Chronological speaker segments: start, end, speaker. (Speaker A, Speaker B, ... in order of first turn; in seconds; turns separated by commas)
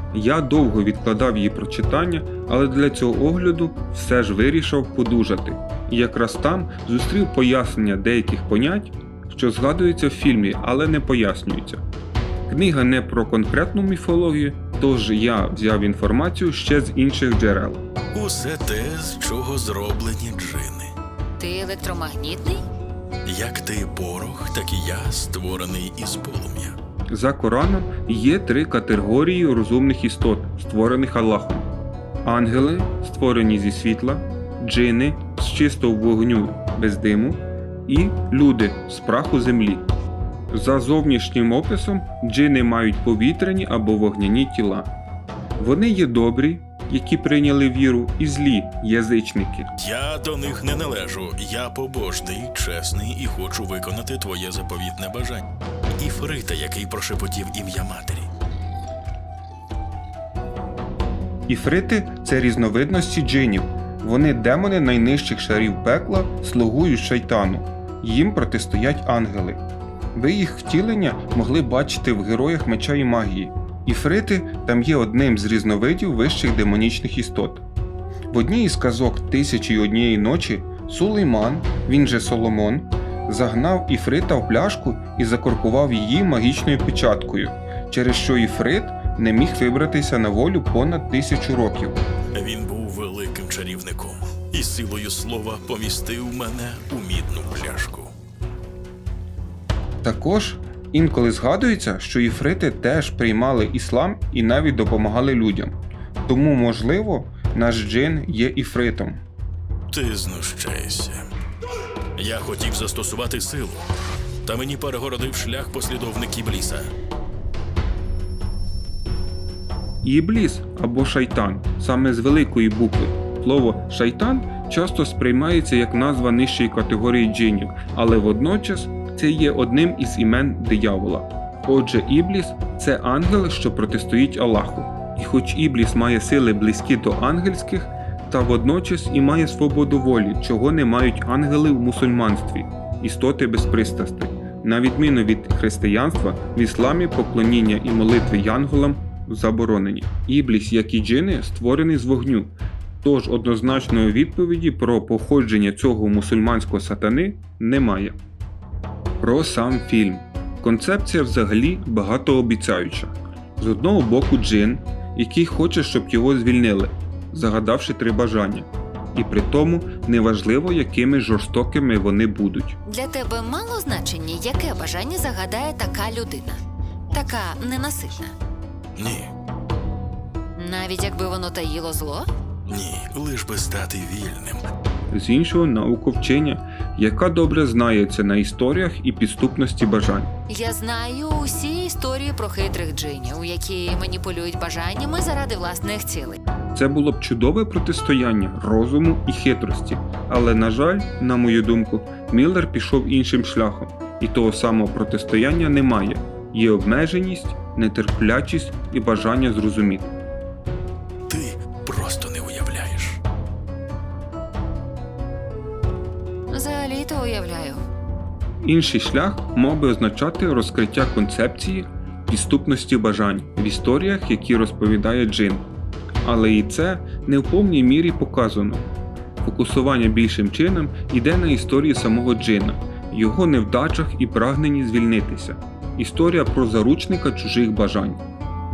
Speaker A: 0.1-11.8, Speaker A: 12.5-17.8, Speaker B: 18.1-20.9, Speaker C: 21.4-22.6, Speaker B: 23.3-26.8, Speaker A: 27.1-31.7, Speaker A: 32.2-39.9, Speaker A: 40.5-44.9, Speaker A: 45.6-49.7, Speaker B: 49.8-55.5, Speaker B: 56.0-58.3, Speaker A: 61.5-69.6, Speaker A: 70.1-77.7, Speaker A: 78.3-92.0, Speaker B: 92.3-98.1, Speaker A: 100.0-109.2, Speaker B: 109.9-111.2, Speaker B: 112.2-113.8, Speaker B: 114.4-116.9, Speaker A: 120.0-158.2, Speaker A: 159.2-172.8, Speaker C: 172.9-176.6, Speaker C: 177.1-178.3, Speaker B: 179.0-179.3, Speaker C: 180.6-182.3, Speaker B: 182.7-184.6, Speaker A: 185.1-190.3, Speaker C: 190.5-196.4, Speaker A: 196.7-210.2, Speaker B: 211.3-213.2, Speaker C: 216.5-217.8, Speaker A: 218.6-225.7, Speaker A: 226.2-228.9, Speaker A: 229.4-238.2